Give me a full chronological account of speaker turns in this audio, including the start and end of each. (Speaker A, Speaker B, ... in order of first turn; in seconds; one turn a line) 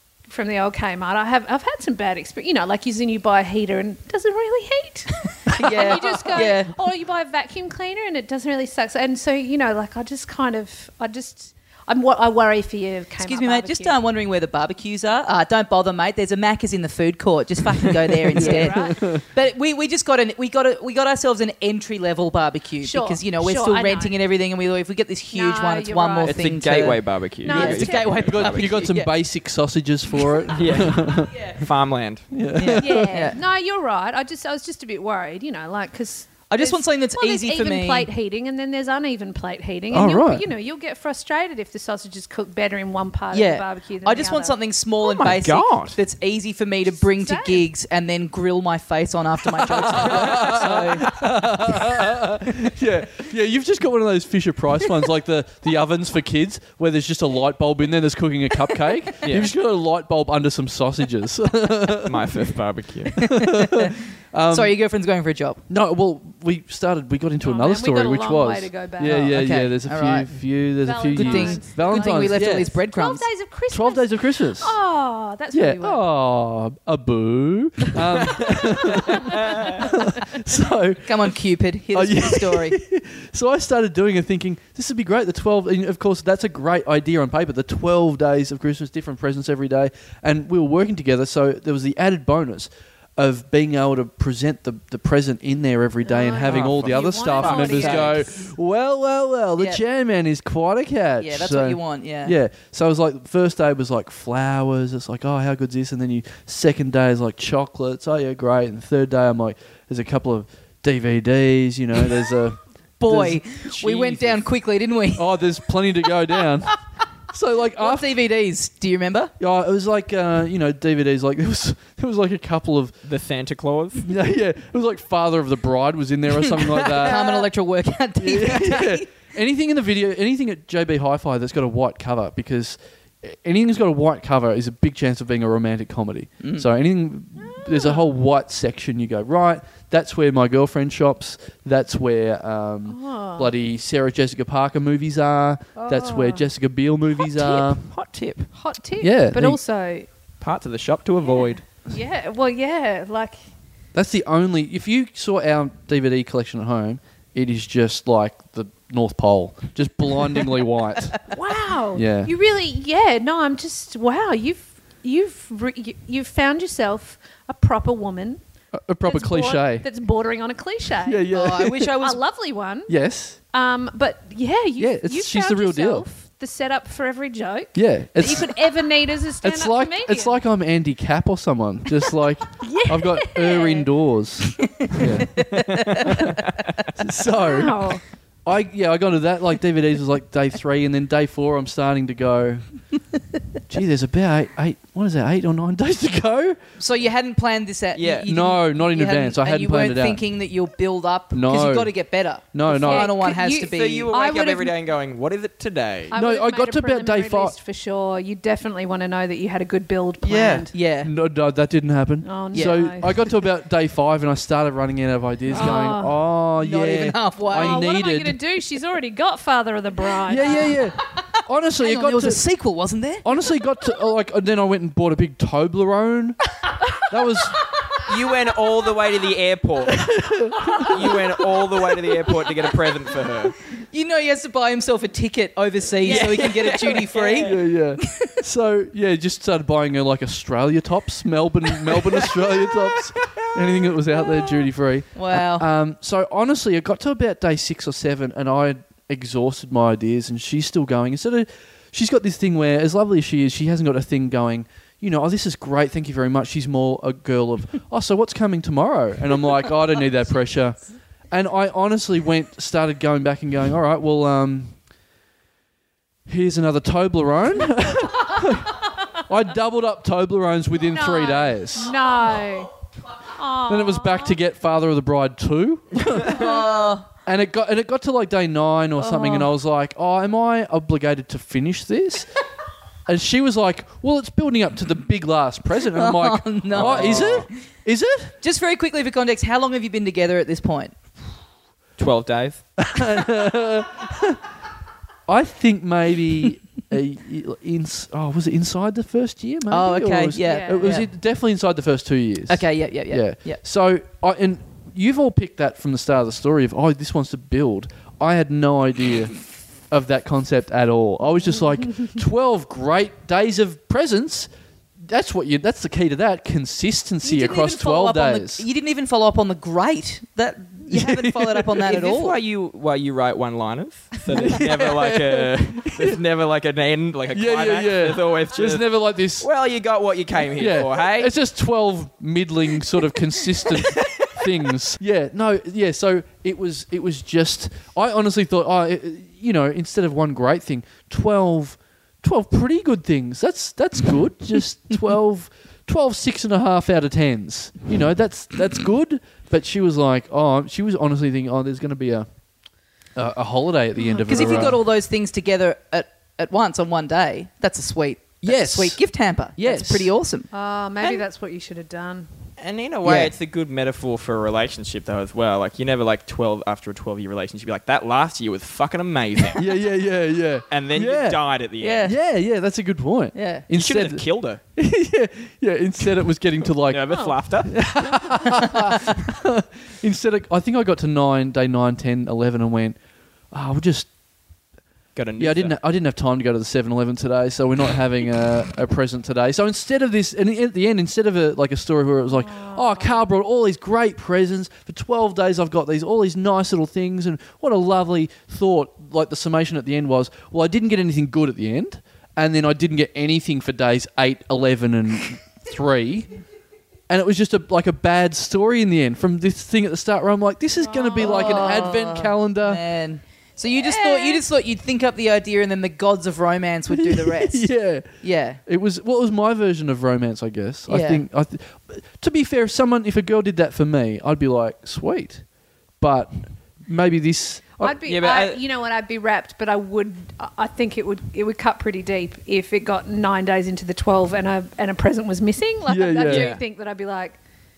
Speaker A: 0.3-13.9
Speaker B: 5.5-6.7
Speaker B: 13.2-29.1
Speaker C: 18.3-19.2
Speaker A: 18.3-19.0
Speaker A: 22.8-24.1
Speaker A: 25.3-26.4
Speaker D: 26.3-28.6
Speaker A: 27.4-28.4
Speaker C: 28.2-31.3
Speaker D: 30.5-32.3
Speaker C: 32.3-33.3
Speaker B: 32.5-33.4
Speaker A: 32.8-44.6
Speaker B: 36.5-38.1
Speaker C: 39.9-40.5
Speaker B: 43.3-51.1
Speaker D: 45.1-46.0
Speaker A: 47.0-47.7
Speaker C: 49.7-62.5
Speaker D: 59.2-59.5
Speaker D: 62.0-63.2
Speaker C: 63.1-64.7
Speaker B: 63.3-63.9
Speaker B: 64.5-65.6
Speaker C: 65.7-72.7
Speaker A: 67.4-69.3
Speaker B: 69.1-70.3
Speaker A: 70.8-76.0
Speaker B: 71.1-73.2
Speaker C: 73.7-74.8
Speaker C: 75.5-81.3
Speaker A: 79.0-79.8
Speaker D: 79.4-79.7
Speaker B: 81.0-82.8
Speaker C: 81.9-113.4
Speaker A: 96.0-98.3
Speaker D: 96.4-98.2
Speaker B: 101.2-102.3
Speaker B: 113.0-115.3
Speaker D: 113.6-114.4
Speaker C: 115.2-116.8
Speaker C: 117.3-118.1
Speaker B: 117.8-119.3
Speaker C: 119.4-123.0
Speaker D: 123.0-124.1
Speaker C: 124.0-127.2
Speaker B: 126.8-129.1
Speaker C: 128.2-147.8
Speaker B: 136.4-136.7
Speaker A: 137.4-138.0
Speaker A: 142.9-143.5
Speaker A: 145.8-146.5
Speaker D: 147.3-148.5
Speaker A: 148.5-150.1
Speaker C: 149.0-149.6
Speaker D: 150.4-151.6
Speaker A: 151.3-153.4
Speaker C: 153.9-161.3
Speaker A: 161.3-168.4
Speaker C: 161.9-162.3
Speaker C: 168.7-169.8
Speaker A: 169.0-173.0
Speaker C: 171.0-171.9
Speaker B: 171.3-172.2
Speaker C: 172.9-173.4
Speaker A: 173.5-180.4
Speaker C: 174.8-176.1
Speaker C: 177.7-178.5
Speaker C: 179.4-186.3
Speaker A: 182.6-183.9
Speaker B: 184.8-186.1
Speaker D: 185.5-186.7
Speaker C: 186.9-192.7
Speaker A: 187.3-188.0
Speaker C: 193.7-196.6
Speaker B: 196.8-204.1
Speaker D: 197.9-198.3
Speaker C: 198.2-200.2
Speaker C: 201.3-201.9
Speaker C: 202.5-203.1
Speaker A: 202.8-204.8
Speaker D: 203.7-206.1
Speaker A: 206.1-210.7
Speaker C: 206.1-207.5
Speaker B: 210.2-211.1
Speaker C: 211.0-218.3
Speaker A: 212.2-213.1
Speaker B: 212.5-212.8
Speaker A: 215.5-216.2
Speaker B: 216.6-217.9
Speaker A: 217.5-220.8
Speaker C: 220.2-222.4
Speaker B: 221.8-223.2
Speaker C: 223.2-226.4
Speaker C: 227.0-227.6
Speaker D: 228.0-230.2
Speaker C: 229.9-231.2
Speaker D: 230.7-233.6
Speaker B: 233.9-237.6
Speaker D: 236.0-237.5
Speaker C: 237.4-260.8
Speaker B: 245.1-245.7
Speaker C: 261.3-264.7
Speaker C: 266.3-272.0
Speaker A: 270.9-272.7
Speaker A: 273.2-274.4
Speaker C: 273.7-276.6
Speaker B: 276.2-277.1
Speaker C: 277.2-282.3
Speaker C: 283.1-288.3
Speaker B: 285.9-287.6
Speaker D: 286.7-287.5
Speaker B: 288.4-290.9
Speaker D: 292.0-292.6
Speaker C: 292.8-294.4
Speaker C: 295.3-309.4
Speaker B: 299.7-301.1
Speaker A: 300.4-301.0
Speaker B: 302.5-303.6
Speaker C: 309.9-314.5
Speaker C: 315.0-318.6
Speaker B: 317.2-322.4
Speaker C: 320.9-321.8
Speaker D: 321.8-331.3
Speaker C: 324.3-326.2
Speaker C: 327.3-329.5
Speaker C: 330.5-352.3
Speaker D: 333.9-334.3
Speaker C: 353.1-354.8
Speaker A: 354.0-354.7
Speaker B: 354.3-360.5
Speaker C: 358.4-359.0
Speaker C: 359.5-360.1
Speaker A: 360.5-362.3
Speaker D: 362.6-369.6
Speaker B: 363.0-363.3
Speaker C: 369.6-371.4
Speaker D: 370.7-372.1
Speaker B: 371.8-372.1
Speaker C: 372.0-374.2
Speaker B: 373.3-373.6
Speaker D: 373.7-374.6
Speaker C: 374.7-383.0
Speaker D: 376.8-377.8
Speaker A: 377.1-377.4
Speaker C: 383.5-384.1
Speaker D: 385.1-385.8
Speaker C: 385.4-406.3
Speaker A: 392.4-393.2
Speaker C: 407.1-412.8
Speaker A: 410.8-411.9
Speaker B: 411.2-418.6
Speaker A: 413.8-414.4
Speaker C: 416.9-425.4
Speaker B: 420.9-421.2
Speaker C: 426.0-427.9
Speaker A: 427.8-437.4
Speaker D: 428.0-428.6
Speaker C: 435.9-436.5
Speaker D: 436.3-436.6